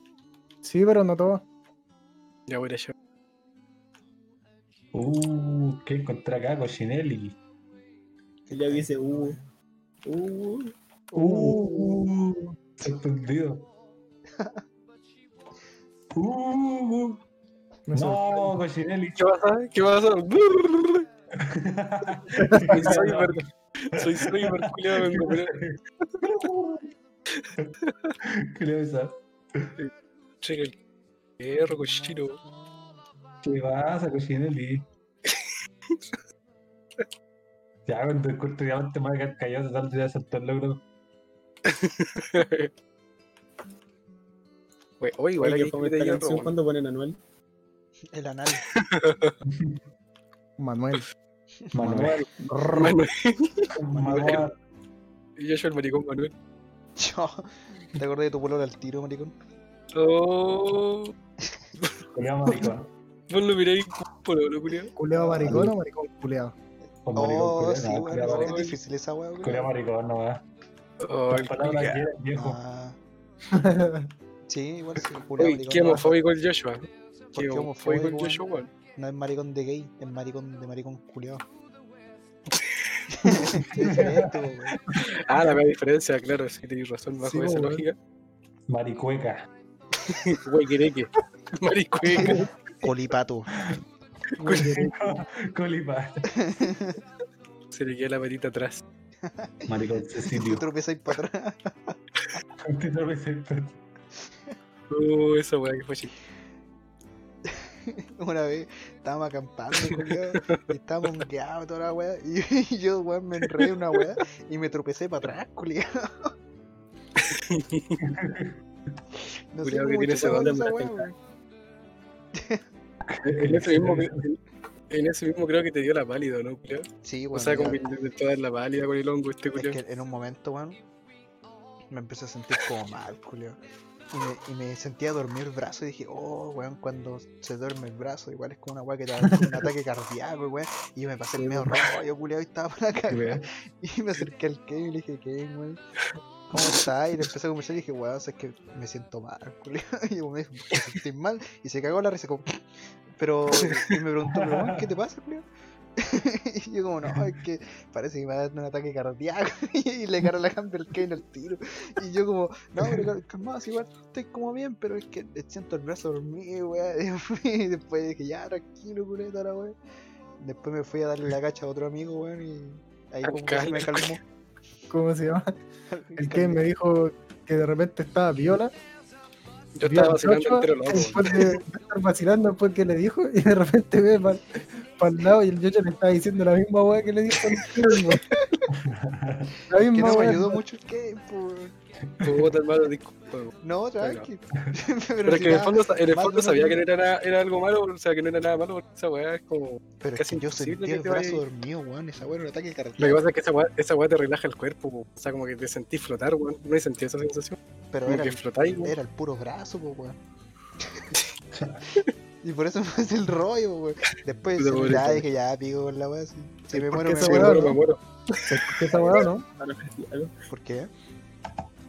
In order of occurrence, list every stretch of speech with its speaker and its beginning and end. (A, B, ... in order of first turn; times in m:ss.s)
0:00.6-0:01.4 A
0:02.5-0:02.9 B
0:04.9-0:07.4 C
0:08.5-0:09.5 D
0:08.5-0:09.4 E
0:10.0-0:10.7 E
0:11.1-0:13.7 C
0:11.1-0:11.9 A
0:14.4-0:14.6 D
0:16.1-0:17.2 C
0:17.9-0:18.5 A
0:17.9-0:19.2 C
0:19.2-0:21.1 B
0:21.4-0:23.4 C
0:22.3-0:22.9 A
0:22.6-0:25.6 B
0:24.0-0:26.9 C
0:27.9-0:28.1 B
0:28.2-0:29.7 C
0:30.4-0:30.7 B
0:31.4-0:32.4 B
0:31.7-0:32.7 D
0:33.4-0:34.9 C
0:35.3-0:36.0 B
0:37.8-0:40.8 C
0:41.7-0:42.7 B
0:45.0-0:46.5 B
0:45.4-0:47.2 E
0:48.1-0:48.6 D
0:48.7-0:49.3 B
0:49.5-0:49.8 C
0:50.6-0:51.0 A
0:51.7-0:52.2 C
0:52.7-0:54.4 B
0:53.8-0:54.5 C
0:53.9-0:54.4 D
0:55.4-0:56.3 B
0:57.0-0:59.3 D
0:59.9-1:01.1 B
1:02.1-1:02.9 C
1:03.3-1:04.9 B
1:05.0-1:06.5 A
1:05.1-1:05.7 D
1:05.4-1:05.7 C
1:07.0-1:08.6 C
1:07.1-1:09.7 D
1:08.2-1:08.8 B
1:09.4-1:10.4 C
1:11.0-1:12.0 B
1:11.3-1:12.6 C
1:12.3-1:13.0 D
1:13.5-1:14.1 A
1:14.5-1:16.2 D
1:15.4-1:18.7 B
1:17.3-1:21.4 D
1:23.2-1:24.8 D
1:23.5-1:25.0 C
1:25.1-1:27.9 B
1:27.2-1:27.8 A
1:28.7-1:29.5 C
1:30.1-1:32.4 B
1:32.1-1:33.5 D
1:34.4-1:36.2 C
1:34.4-1:35.1 B
1:36.4-1:37.0 D
1:37.7-1:38.8 B
1:39.2-1:39.7 D
1:39.7-1:40.6 C
1:40.2-1:42.0 D
1:42.6-1:43.8 C
1:44.9-1:46.1 B
1:47.5-1:56.3 D
1:57.2-1:58.0 B
1:58.0-1:58.6 C
1:59.5-2:01.1 D
1:59.6-2:01.0 B
2:00.2-2:00.7 E
2:02.4-2:02.6 D
2:03.1-2:04.2 C
2:03.2-2:04.4 B
2:04.9-2:09.8 B
2:07.0-2:07.8 D
2:09.5-2:10.8 D
2:11.9-2:13.6 D
2:14.1-2:25.8 D
2:23.1-2:23.4 C
2:26.5-2:32.6 D
2:33.2-2:35.4 D
2:34.3-2:34.8 C
2:36.0-2:49.8 D
2:50.4-2:54.2 D
2:53.2-2:54.2 B
2:54.9-2:55.5 A
2:55.9-2:56.6 D
2:56.2-2:58.7 A
2:59.8-3:01.6 B
2:59.8-3:08.4 A
3:08.7-3:09.5 C
3:09.7-3:10.6 A
3:09.8-3:11.8 D
3:12.0-3:12.5 C
3:12.2-3:14.3 B
3:13.6-3:16.8 D
3:15.2-3:21.4 B
3:20.0-3:23.2 D
3:23.0-3:28.9 B
3:27.9-3:30.2 D
3:31.5-3:31.8 C
3:32.4-3:37.8 D
3:34.6-3:35.2 B
3:36.9-3:37.8 A
3:37.0-3:38.9 B
3:38.5-3:39.4 A
3:39.0-3:40.3 E
3:40.5-3:40.9 D